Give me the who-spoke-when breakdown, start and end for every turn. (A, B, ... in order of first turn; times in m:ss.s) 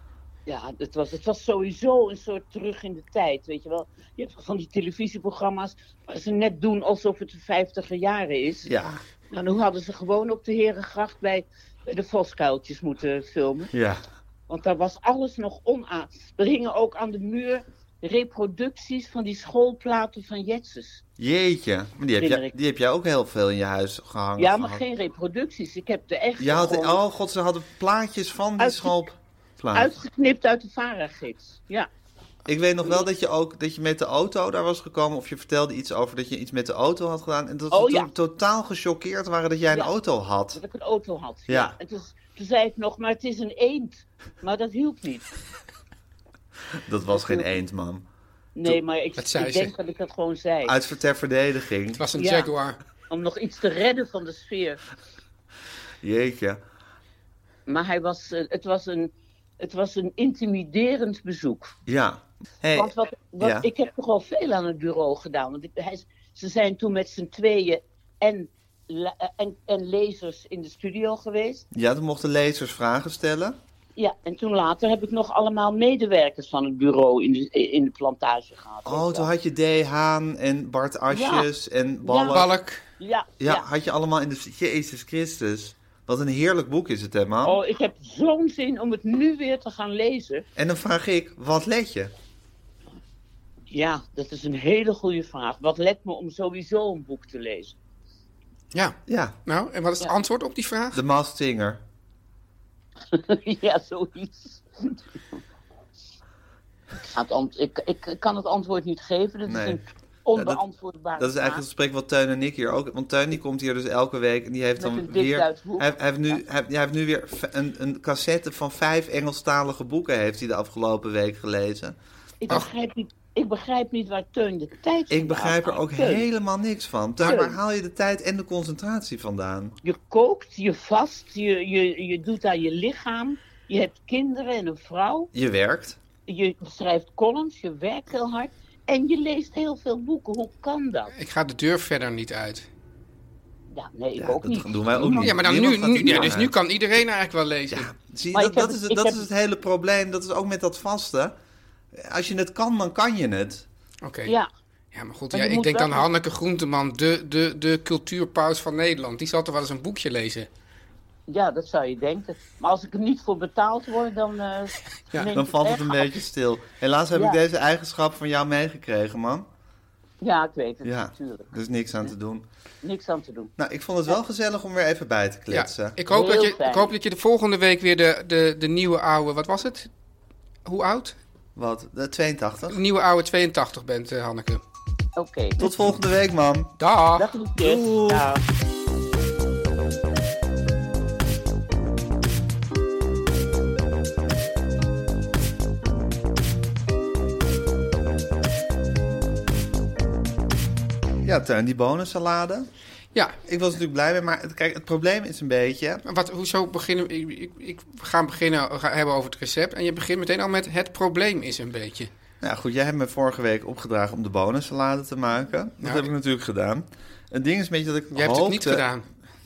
0:00.5-0:08.7 A
0:08.6-0:09.0 B
0:09.3-0:13.7 A
0:13.7-0:14.0 B
0:14.5-0:21.0 A
0:21.2-0:24.8 B
0:22.2-0:22.5 A
0:24.4-0:27.0 A
0:26.4-0:29.9 B
0:28.6-0:29.0 A
0:29.7-0:31.9 A
0:32.4-0:40.6 B
0:37.7-0:38.1 A
0:40.5-0:45.3 A
0:41.5-0:41.7 B
0:46.8-0:48.0 B
0:47.1-0:47.5 A
0:48.6-0:50.7 A
0:49.2-0:49.7 C
0:50.6-0:52.0 B
0:52.0-0:52.8 C
0:52.2-0:52.5 A
0:53.1-0:54.8 A
0:56.0-0:56.6 B
0:57.7-1:01.7 A
1:01.8-1:03.7 B
1:02.7-1:11.6 A
1:11.7-1:13.6 B
1:14.0-1:19.3 A
1:18.8-1:22.5 B
1:21.1-1:21.5 A
1:22.0-1:22.4 A
1:22.3-1:22.8 C
1:23.0-1:23.6 A
1:23.4-1:27.6 B
1:27.4-1:30.4 A
1:30.6-1:32.1 B
1:33.7-1:37.8 A
1:38.7-1:41.0 C
1:39.1-1:39.4 B
1:40.9-1:41.8 B
1:43.1-1:45.4 A
1:47.0-1:51.6 A
1:49.4-1:49.8 B
1:50.3-1:50.6 B
1:51.2-2:02.0 B
1:54.8-1:56.4 A
2:02.4-2:06.2 A
2:05.1-2:09.8 B
2:07.2-2:07.6 A
2:09.8-2:15.3 A
2:15.3-2:16.0 B
2:16.3-2:21.1 A
2:21.1-2:22.7 C
2:23.7-2:25.4 A
2:24.2-2:26.5 B
2:25.2-2:27.9 C
2:26.0-2:26.3 A
2:27.7-2:31.4 B
2:28.3-2:29.2 A
2:31.9-2:33.6 B
2:34.0-2:34.3 C
2:34.9-2:40.5 C
2:35.3-2:36.1 A
2:41.3-2:46.2 A
2:45.3-2:49.5 B
2:47.1-2:47.4 A
2:50.2-2:51.5 A
2:50.8-2:52.4 B
2:52.8-2:53.5 A
2:53.6-2:56.0 B
2:55.5-2:59.9 C
2:56.1-2:56.9 A
3:00.6-3:01.2 C
3:01.6-3:02.8 B
3:02.7-3:04.6 C
3:05.2-3:05.6 A
3:05.6-3:06.7 B
3:06.8-3:07.3 C
3:07.2-3:08.4 A
3:07.6-3:08.3 B
3:21.2-3:22.7 B
3:23.4-3:26.0 B
3:26.0-3:32.1 C
3:32.4-3:38.8 B
3:35.8-3:36.1 C
3:38.1-3:39.0 C